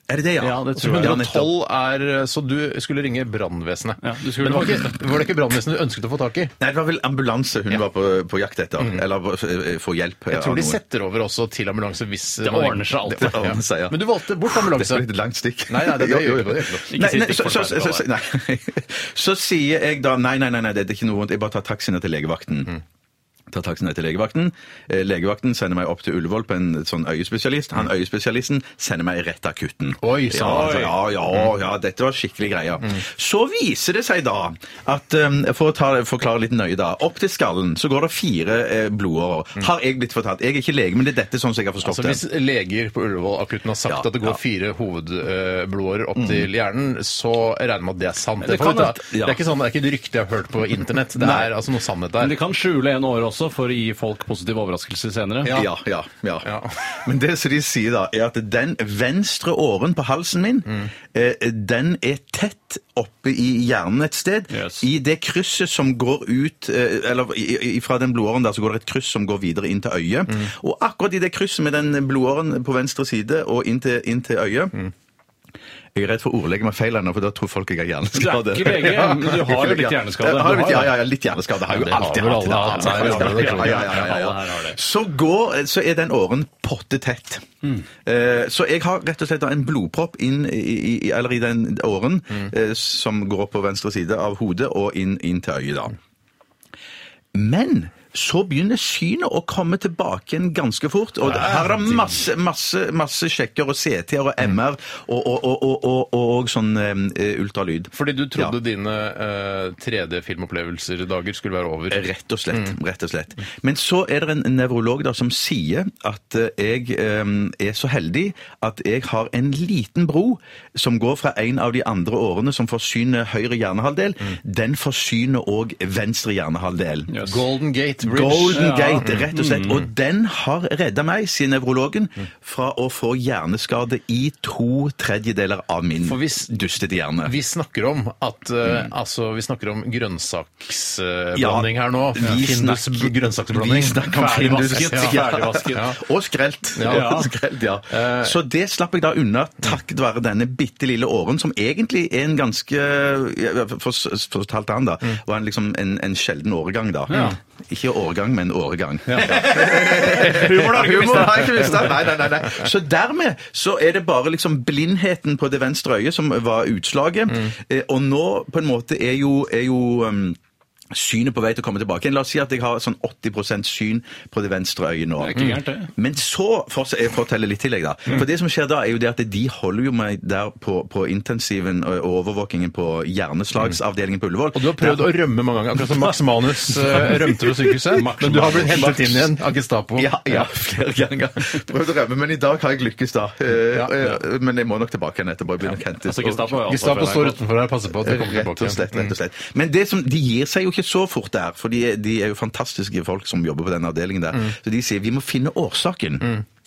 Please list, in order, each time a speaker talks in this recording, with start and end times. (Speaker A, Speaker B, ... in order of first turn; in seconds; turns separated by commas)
Speaker A: 0.1-1.5, Speaker B: 0.4-1.2, Speaker C: 0.8-6.5, Speaker B: 4.0-5.0, Speaker A: 6.6-10.8, Speaker C: 10.3-15.1, Speaker B: 12.4-13.4, Speaker A: 13.2-22.7, Speaker C: 15.7-16.9, Speaker B: 16.9-18.1, Speaker A: 23.5-42.2, Speaker C: 30.0-30.9, Speaker B: 30.4-30.9, Speaker C: 41.8-52.3, Speaker A: 43.9-44.4, Speaker A: 46.2-46.5, Speaker A: 48.5-49.4, Speaker B: 48.6-48.9, Speaker B: 52.2-55.6, Speaker A: 55.5-74.8, Speaker C: 56.4-56.8, Speaker B: 64.5-64.8, Speaker A: 76.0-96.0, Speaker B: 78.2-81.0, Speaker C: 81.7-83.9, Speaker B: 82.4-84.8, Speaker A: 97.3-108.5, Speaker C: 101.3-101.6, Speaker C: 107.9-112.1, Speaker A: 111.9-127.2, Speaker C: 127.2-129.3, Speaker A: 128.0-137.3, Speaker B: 128.5-129.9, Speaker C: 136.0-136.5, Speaker C: 137.2-144.0, Speaker A: 141.3-170.4, Speaker B: 144.1-145.9, Speaker C: 144.8-145.2, Speaker C: 146.7-147.3, Speaker B: 146.9-147.3, Speaker C: 147.9-148.4, Speaker B: 157.1-157.4, Speaker B: 159.1-161.9, Speaker C: 159.9-161.7, Speaker A: 170.9-175.4, Speaker B: 175.2-175.9, Speaker A: 175.9-185.0, Speaker C: 184.5-190.2, Speaker B: 186.8-187.2, Speaker B: 187.9-189.3, Speaker A: 190.0-196.6, Speaker B: 196.0-197.4, Speaker C: 196.7-199.1, Speaker A: 198.0-206.4